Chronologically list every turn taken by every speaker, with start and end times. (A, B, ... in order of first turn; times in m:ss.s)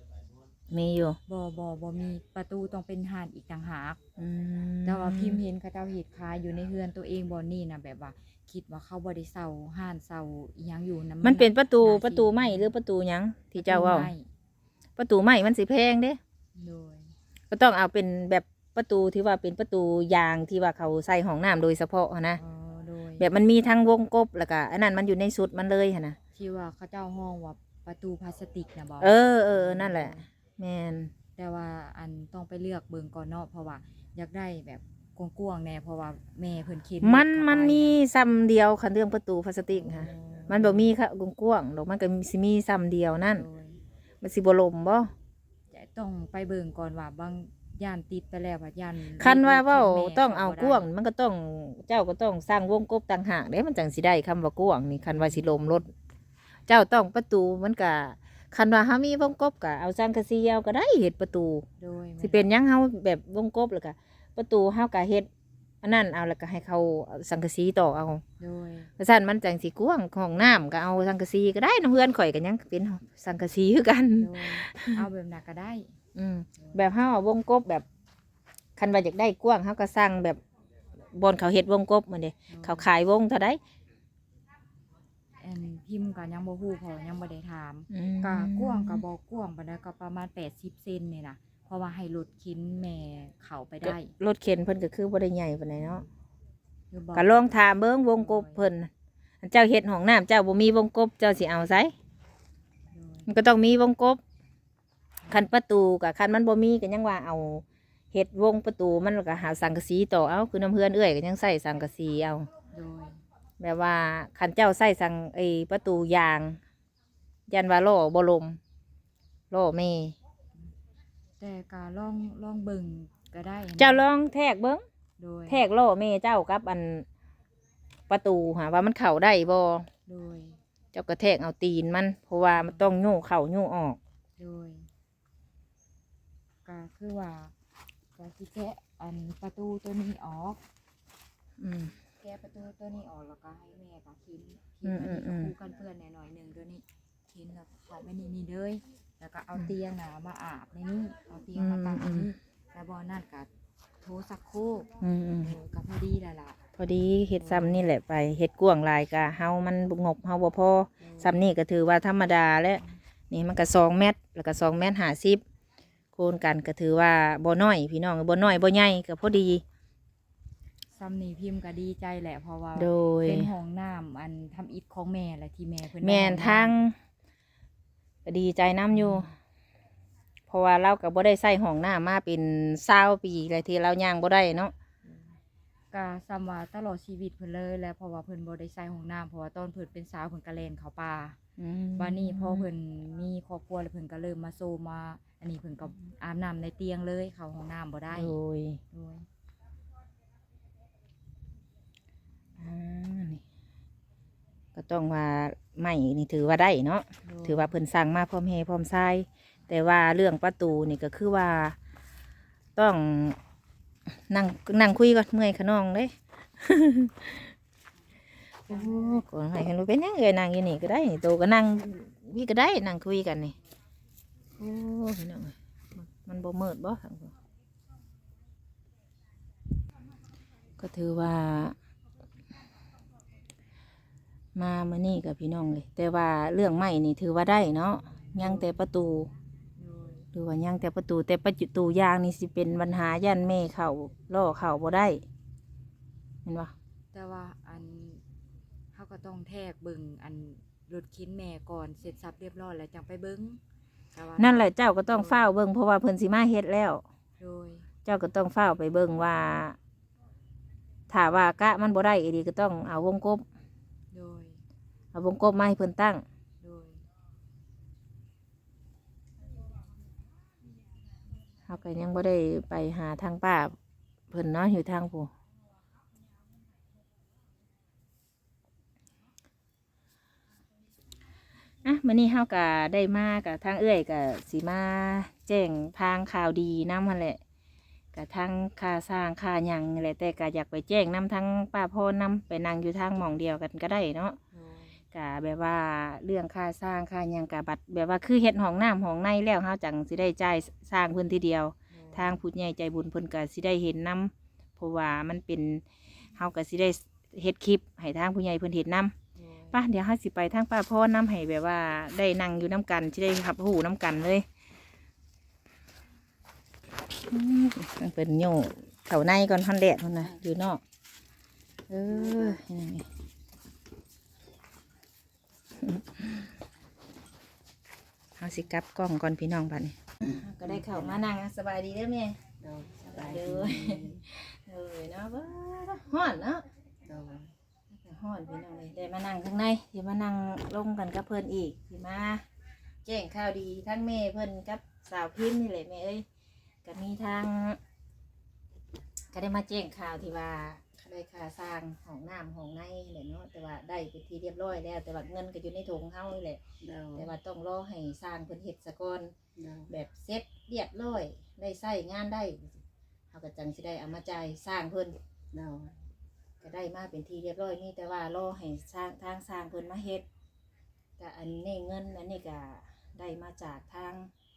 0:00.7-0:01.2 A
0:01.3-0:04.0 B
0:04.2-0:05.4 A
0:04.8-0:12.7 B
0:11.2-0:14.1 A
0:13.6-0:14.3 B
0:15.0-0:16.2 A
0:16.6-0:17.1 B
0:17.5-0:22.4 A
0:22.4-0:23.3 B
0:23.2-0:26.2 A
0:26.3-0:30.3 B
0:29.0-0:31.1 A
0:31.4-0:38.0 B
0:37.0-0:43.5 A
0:39.7-0:40.9 B
0:43.2-0:43.8 B
0:44.2-0:45.1 A
0:45.7-0:50.9 B
0:49.2-0:55.9 A
0:55.1-0:55.8 B
0:56.7-1:01.7 A
1:01.8-1:02.5 B
1:02.2-1:05.3 A
1:05.8-1:08.2 A
1:08.4-1:08.9 B
1:09.0-1:15.1 A
1:14.2-1:15.9 B
1:16.1-1:17.8 A
1:16.6-1:16.9 B
1:18.8-1:20.4 A
1:21.1-1:23.6 A
1:22.5-1:22.9 B
1:25.4-1:34.1 B
1:27.9-1:29.0 A
1:33.8-1:36.1 A
1:36.9-1:37.5 B
1:37.1-1:38.9 A
1:38.2-1:38.7 B
1:39.4-1:41.9 A
1:42.9-1:43.3 B
1:43.3-1:44.2 A
1:45.3-1:52.5 A
1:52.7-1:53.2 B
1:53.6-1:56.6 A
1:57.5-1:58.6 A
1:59.5-2:00.2 A
2:01.4-2:04.1 B
2:03.8-2:04.8 A
2:05.2-2:05.6 B
2:05.5-2:07.0 A
2:08.1-2:09.9 A
2:10.1-2:10.6 B
2:10.9-2:14.0 A
2:12.5-2:12.8 B
2:14.4-2:14.9 B
2:16.6-2:17.5 B
2:18.2-2:20.6 B
2:21.6-2:22.0 A
2:22.2-2:33.5 B
2:24.8-2:25.5 A
2:31.5-2:32.3 A
2:34.0-2:36.6 B
2:35.0-2:35.6 A
2:36.8-2:45.4 A
2:37.4-2:37.9 B
2:41.0-2:41.4 B
2:46.1-2:49.6 A
2:50.9-2:56.8 B
2:52.7-2:53.5 A
2:56.0-2:57.0 A
2:58.2-2:59.3 A
2:58.9-2:59.3 B
3:00.5-3:04.7 A
3:05.9-3:11.4 B
3:11.6-3:12.7 A
3:12.0-3:18.4 B
3:18.1-3:18.8 A
3:18.9-3:19.3 B
3:22.6-3:23.4 A
3:24.7-3:31.8 A
3:27.2-3:27.8 B
3:32.8-3:33.4 A
3:34.3-3:37.5 A
3:38.7-3:43.6 A
3:38.7-3:39.2 B
3:44.6-3:47.3 A
3:50.8-3:51.8 A
3:54.6-3:59.3 A
3:58.4-3:58.7 B
3:59.8-4:00.3 B
4:00.3-4:05.2 A
4:06.4-4:06.7 A
4:07.1-4:08.2 B
4:08.9-4:13.6 B
4:14.1-4:15.5 B
4:14.4-4:17.0 A
4:17.4-4:17.9 B
4:18.0-4:19.8 A
4:21.1-4:23.4 A
4:24.1-4:24.6 B
4:25.1-4:26.2 A
4:26.6-4:27.0 B
4:31.7-4:33.8 A
4:34.3-4:35.3 A
4:41.8-4:47.4 A
4:48.1-4:54.4 A
4:54.5-4:55.0 B
4:55.1-5:09.1 A
5:01.9-5:02.4 B
5:09.4-5:09.8 B
5:09.7-5:14.4 A
5:17.2-5:20.8 A
5:21.9-5:23.1 A
5:22.1-5:22.6 C
5:25.8-5:26.5 A
5:28.4-5:32.4 A
5:30.2-5:31.3 C
5:32.6-5:34.2 C
5:33.1-5:36.6 A
5:37.0-5:37.5 C
5:37.9-5:42.4 A
5:43.0-5:46.2 A
5:46.8-5:47.8 A
5:49.3-5:56.6 A
5:56.8-5:57.3 C
5:57.1-5:59.3 A
5:59.6-5:59.9 C
5:59.9-6:05.2 A
6:05.5-6:06.0 C
6:06.6-6:10.2 A
6:11.2-6:14.3 A